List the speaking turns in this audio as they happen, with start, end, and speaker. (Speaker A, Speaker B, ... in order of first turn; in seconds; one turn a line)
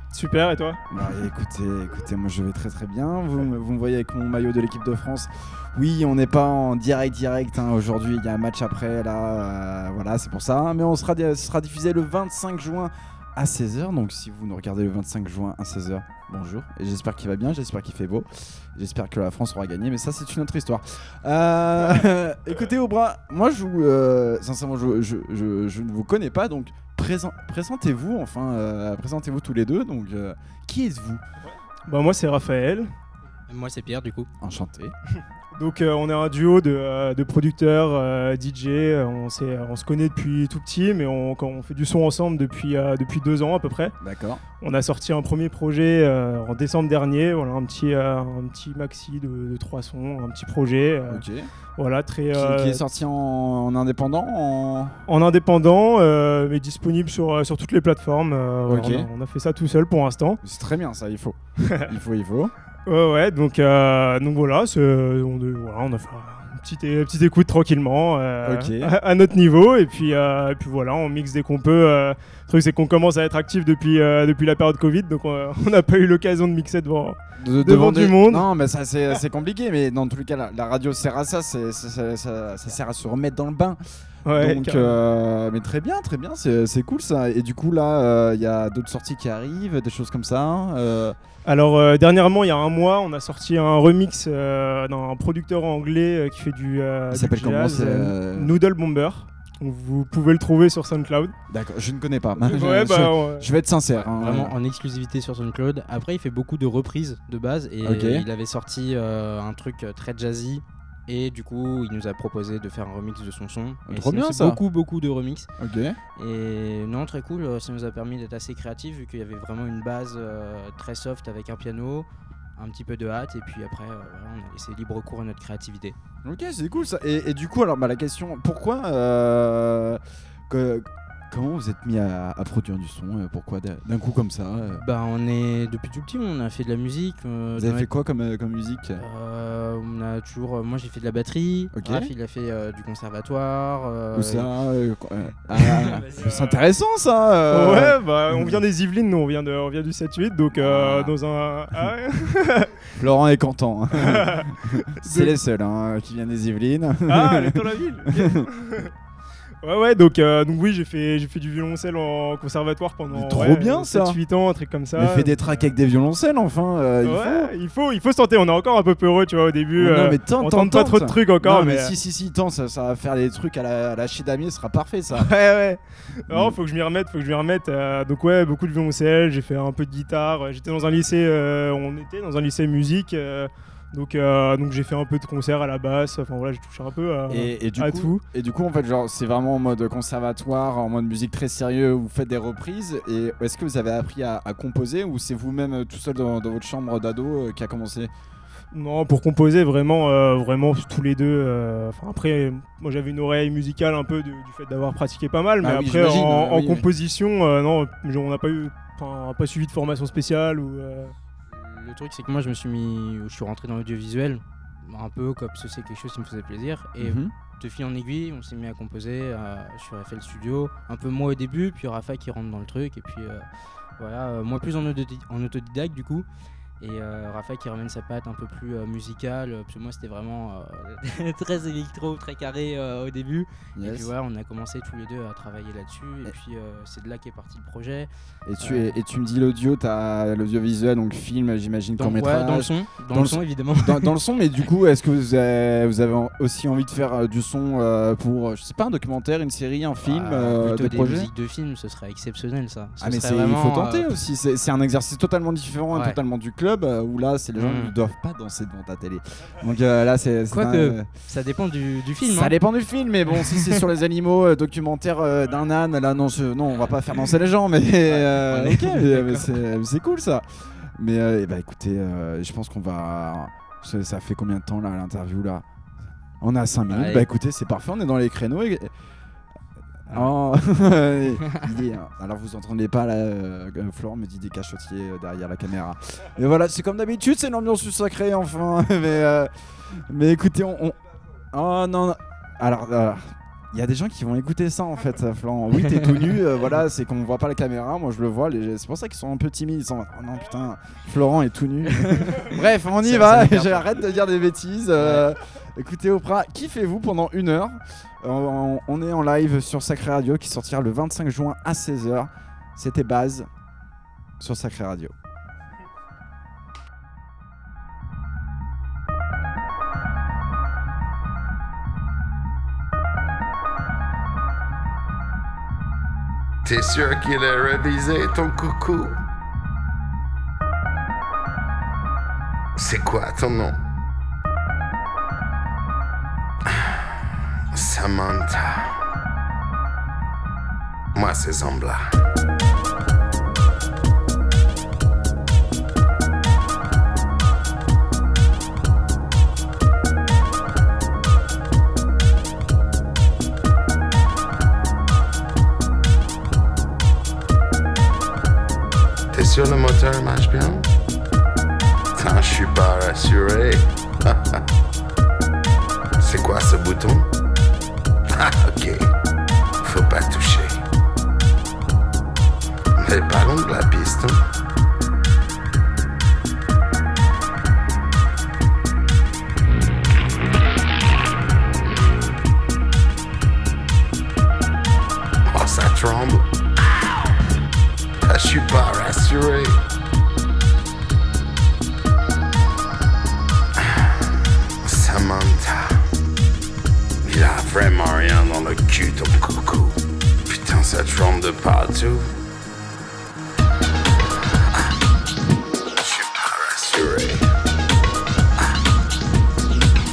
Speaker A: 0.1-0.8
Speaker B: 0.9-31.2
Speaker A: 31.9-32.9
Speaker C: 33.5-34.3
Speaker B: 34.4-34.9
Speaker A: 35.5-43.9
Speaker B: 44.0-44.4
Speaker A: 44.6-51.2
Speaker B: 51.1-51.5
Speaker A: 51.8-52.8
Speaker B: 52.3-55.0
Speaker A: 55.1-60.4
Speaker B: 58.7-59.1
Speaker B: 60.4-62.5
Speaker A: 62.9-78.4
Speaker B: 68.4-68.9
Speaker B: 77.4-91.2
Speaker A: 84.2-85.0
Speaker A: 91.5-101.3
Speaker B: 97.1-98.5
Speaker B: 101.5-104.5
Speaker A: 102.4-103.5
Speaker C: 104.2-115.5
Speaker B: 107.8-108.2
Speaker B: 113.9-114.6
Speaker B: 115.6-116.0
Speaker C: 116.2-126.0
Speaker B: 126.2-134.8
Speaker C: 134.7-137.9
Speaker B: 137.6-139.0
Speaker C: 139.0-144.5
Speaker B: 141.8-142.1
Speaker B: 144.1-148.6
Speaker C: 145.6-146.3
Speaker A: 147.5-152.9
Speaker B: 150.7-151.1
Speaker B: 153.0-158.5
Speaker A: 153.9-155.3
Speaker A: 157.1-158.9
Speaker A: 159.6-165.3
Speaker B: 163.1-164.2
Speaker B: 164.9-167.5
Speaker A: 167.0-171.9
Speaker B: 169.8-175.3
Speaker A: 175.1-188.2
Speaker B: 176.3-176.6
Speaker B: 187.3-198.1
Speaker A: 198.7-211.1
Speaker B: 205.6-206.8
Speaker C: 211.5-223.5
Speaker B: 217.0-217.3
Speaker C: 224.0-226.2
Speaker C: 226.8-238.1
Speaker B: 233.8-234.1
Speaker B: 238.4-251.3
Speaker C: 238.6-239.0
Speaker C: 242.0-244.2
Speaker C: 250.0-254.1
Speaker B: 253.0-261.1
Speaker C: 255.9-256.2
Speaker C: 257.6-257.9
Speaker C: 260.5-262.6
Speaker B: 262.2-270.4
Speaker C: 268.0-269.6
Speaker B: 270.9-275.6
Speaker B: 276.4-278.9
Speaker C: 276.9-277.3
Speaker B: 280.1-291.0
Speaker C: 281.4-281.7
Speaker B: 291.5-313.5
Speaker C: 295.9-296.2
Speaker C: 302.0-304.0
Speaker C: 305.0-305.3
Speaker B: 314.4-315.1
Speaker D: 326.6-329.2
Speaker D: 332.8-333.8
Speaker D: 337.7-338.9
Speaker D: 341.1-342.1
Speaker D: 359.3-360.9
Speaker D: 362.1-364.6
Speaker D: 366.2-367.3
Speaker D: 368.3-369.1
Speaker D: 369.8-370.8
Speaker D: 373.0-374.4
Speaker D: 385.5-386.4
Speaker D: 388.3-389.8
Speaker D: 394.8-396.0
Speaker D: 397.2-402.3
Speaker D: 406.0-407.4